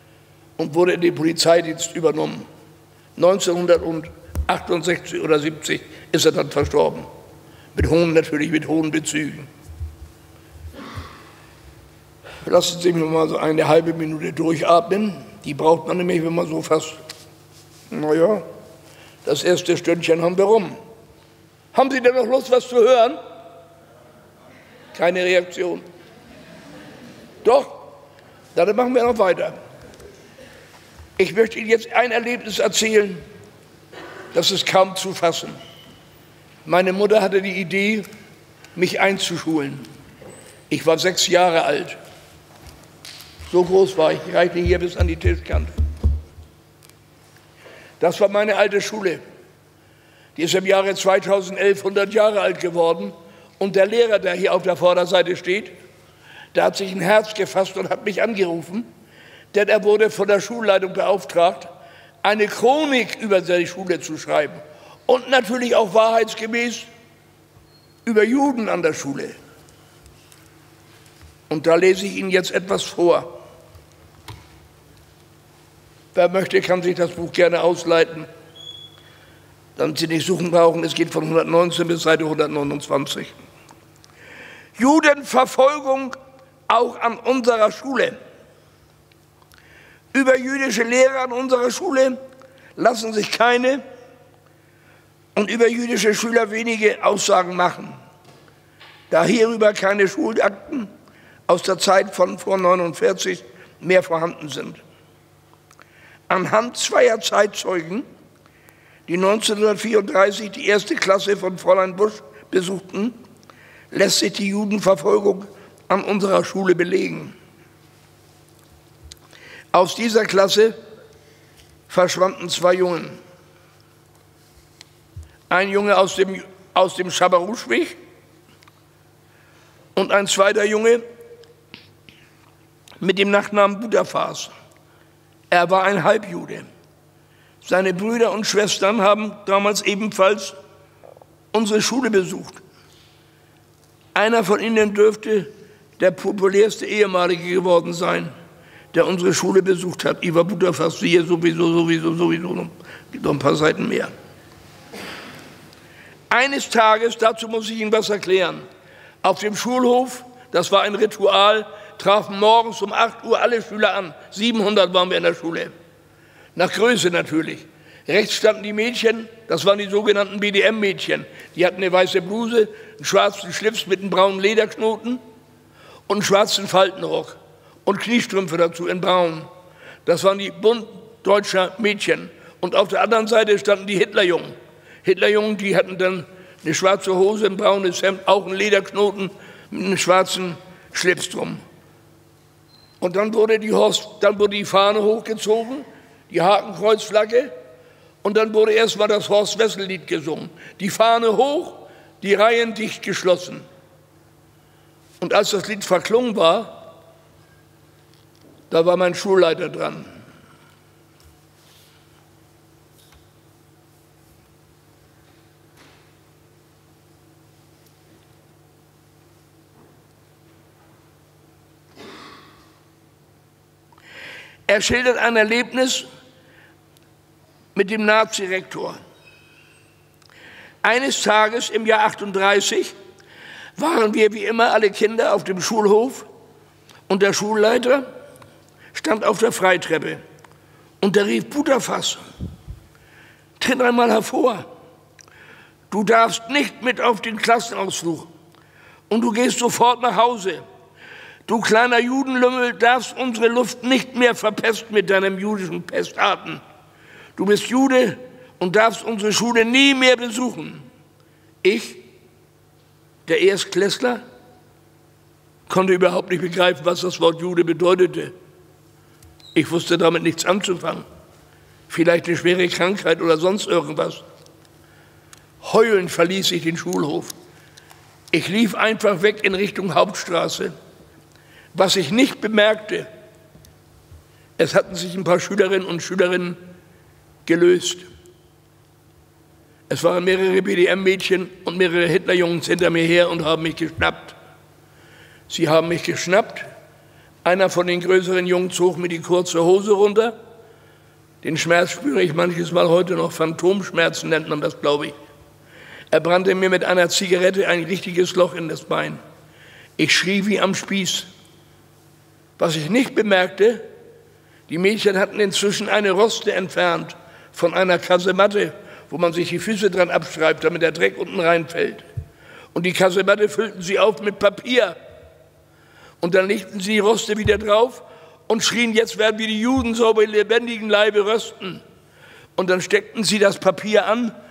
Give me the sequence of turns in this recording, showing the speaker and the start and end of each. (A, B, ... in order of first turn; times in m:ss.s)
0:00.6-0:02.5 A
0:03.2-0:07.1 A
0:07.7-0:09.5 A
0:12.4-0:17.0 A
0:17.9-0:18.4 A
0:19.2-0:20.7 A
0:21.7-0:23.2 A
0:25.0-0:25.8 A
0:27.4-0:27.9 A
0:28.5-0:29.6 A
0:31.2-0:33.2 A
0:34.3-0:35.6 A
0:36.7-0:38.1 A
0:38.8-0:39.9 A
0:40.7-0:42.0 A
0:43.5-0:45.7 A
0:48.0-0:49.2 A
0:50.4-0:55.7 A
0:56.5-0:58.9 A
0:59.5-1:01.7 A
1:02.2-1:06.9 A
1:08.0-1:09.4 A
1:11.5-1:13.3 A
1:16.1-1:18.3 A
1:19.8-1:23.4 A
1:24.8-1:26.2 A
1:26.7-1:28.2 A
1:30.1-1:32.2 A
1:32.8-1:33.8 A
1:35.4-1:38.0 A
1:39.1-1:40.9 A
1:41.5-1:44.8 A
1:46.3-1:48.0 A
1:49.1-1:53.2 A
1:53.9-1:57.3 A
1:59.7-2:00.8 A
2:01.9-2:03.2 A
2:05.5-2:08.0 A
2:10.0-2:11.0 A
2:13.0-2:14.5 A
2:15.5-2:16.7 A
2:17.6-2:20.6 A
2:21.5-2:22.6 A
2:24.2-2:28.3 A
2:28.9-2:34.1 A
2:36.3-2:38.6 A
2:39.2-2:45.7 A
2:46.6-2:55.2 A
2:56.1-2:59.5 A
3:00.0-3:11.6 A
3:13.0-3:17.5 A
3:18.2-3:23.7 A
3:25.2-3:26.9 A
3:28.7-3:30.2 A
3:44.7-3:46.0 A
3:47.8-3:49.0 A
3:50.8-3:52.9 A
3:53.8-3:56.3 A
3:57.1-3:58.0 A
3:58.9-4:00.2 A
4:01.0-4:02.2 A
4:03.6-4:04.7 A
4:05.9-4:08.3 A
4:09.1-4:10.6 A
4:11.5-4:16.6 A
4:17.4-4:20.9 A
4:21.6-4:22.0 A
4:23.3-4:24.2 A
4:25.7-4:28.3 A
4:29.5-4:31.1 A
4:31.9-4:34.2 A
4:35.6-4:37.3 A
4:38.3-4:40.7 A
4:41.7-4:43.1 A
4:44.6-4:46.6 A
4:47.4-4:48.0 A
4:49.9-4:54.4 A
4:55.5-4:56.7 A
4:57.4-5:00.4 A
5:01.4-5:05.1 A
5:06.1-5:09.2 A
5:10.0-5:11.3 A
5:12.6-5:13.8 A
5:14.7-5:22.0 A
5:22.7-5:25.0 A
5:26.2-5:31.8 A
5:32.6-5:34.3 A